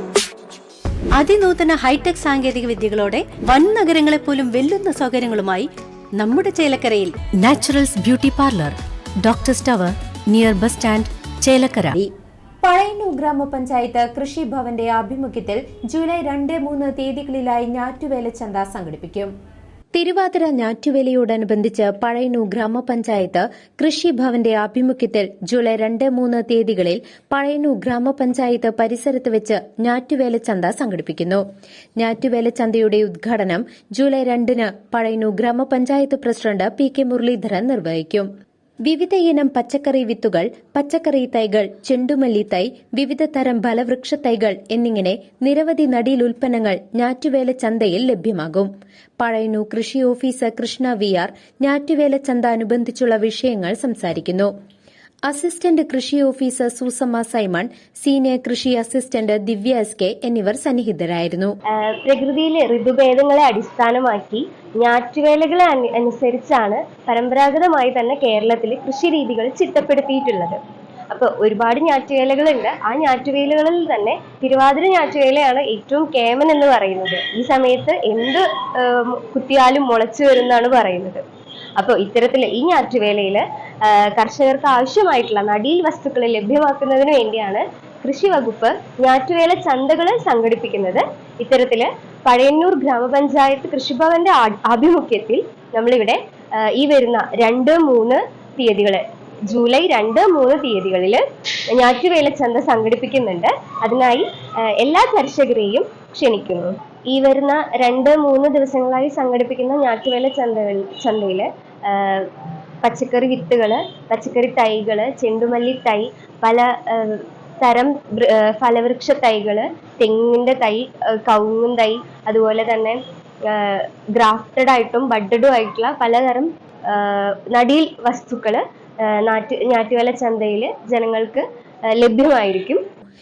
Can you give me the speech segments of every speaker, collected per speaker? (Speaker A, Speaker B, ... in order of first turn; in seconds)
Speaker A: 1.2-5.7, 6.2-8.7, 9.2-11.9
Speaker B: 1.2-5.3, 7.6-8.7, 9.3-9.6, 11.7-12.1, 12.6-19.3, 19.9-31.4, 32.0-38.3, 38.8-54.5, 55.3-61.5
Speaker C: 61.7-70.6, 71.1-81.2, 81.8-132.8